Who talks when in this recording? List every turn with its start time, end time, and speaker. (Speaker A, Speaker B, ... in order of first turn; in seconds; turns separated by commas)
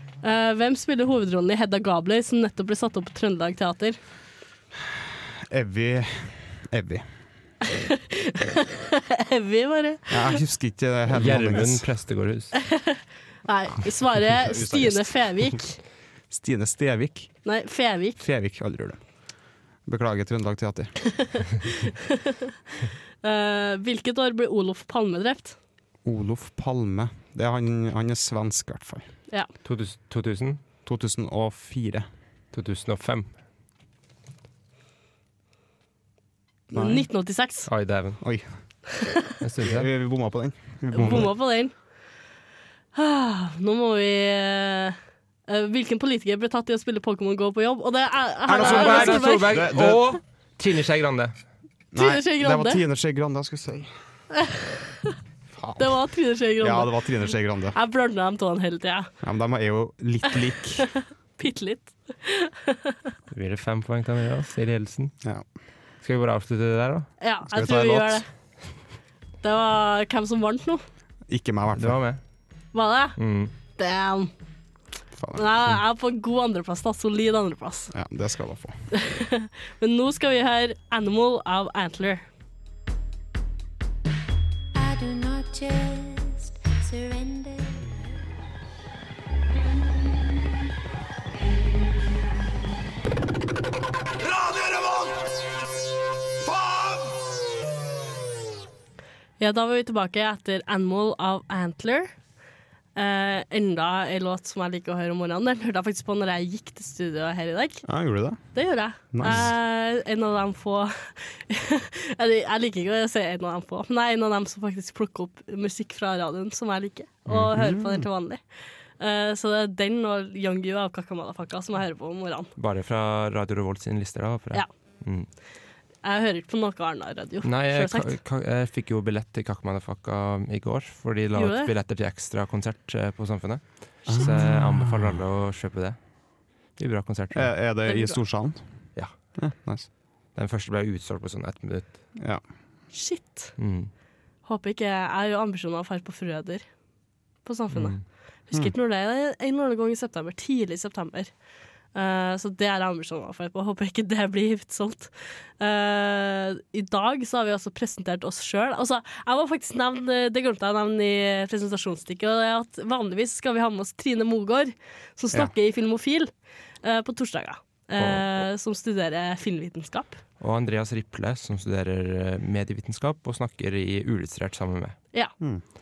Speaker A: 0.2-4.0, Speaker B: 5.5-7.0, Speaker A: 7.7-10.4, Speaker B: 10.1-11.8, Speaker C: 11.1-12.5, Speaker A: 12.6-15.8, Speaker B: 14.3-15.6, Speaker B: 16.3-17.4, Speaker A: 17.4-18.2, Speaker B: 18.2-19.0, Speaker B: 19.9-21.1, Speaker A: 23.2-25.6, Speaker B: 26.0-29.1, Speaker C: 29.6-30.6, Speaker B: 30.9-32.1, Speaker C: 32.5-33.3, Speaker B: 36.7-37.1, Speaker A: 36.7-37.7, Speaker C: 37.7-38.2, Speaker B: 38.2-38.5, Speaker C: 39.4-39.9, Speaker B: 39.6-41.3, Speaker A: 40.9-41.7, Speaker C: 41.0-41.3, Speaker A: 42.9-45.0, Speaker A: 45.5-49.6, Speaker B: 48.5-50.1, Speaker C: 48.5-51.3, Speaker B: 51.9-53.9, Speaker A: 52.0-52.8, Speaker A: 54.4-55.1, Speaker B: 55.5-57.8, Speaker A: 55.8-59.1, Speaker B: 59.2-60.9, Speaker A: 61.4-63.0, Speaker C: 63.3-65.1, Speaker C: 66.0-67.1, Speaker A: 67.2-68.2, Speaker B: 67.5-68.2, Speaker A: 69.4-70.8, Speaker B: 71.3-72.0, Speaker C: 71.7-72.2, Speaker A: 72.7-73.2, Speaker C: 73.2-73.5, Speaker A: 73.8-74.3, Speaker B: 75.2-75.8, Speaker A: 75.3-77.9, Speaker B: 77.9-78.8, Speaker A: 78.9-82.2, Speaker D: 84.7-88.1, Speaker A: 99.4-102.1, Speaker A: 103.0-107.9, Speaker B: 107.8-109.5, Speaker A: 108.5-118.4, Speaker B: 117.5-118.0, Speaker A: 119.0-122.5, Speaker C: 122.6-125.3, Speaker A: 126.0-128.1, Speaker C: 127.4-136.1, Speaker A: 131.3-131.7, Speaker B: 134.1-135.0, Speaker C: 136.7-137.5, Speaker B: 137.3-139.9, Speaker A: 137.8-138.2, Speaker C: 140.3-142.0, Speaker A: 142.9-143.6, Speaker C: 143.6-143.9, Speaker A: 144.4-146.6, Speaker A: 147.4-151.3, Speaker C: 147.7-148.0, Speaker A: 151.9-166.3, Speaker A: 166.8-170.2, Speaker C: 168.0-168.3, Speaker C: 170.4-175.0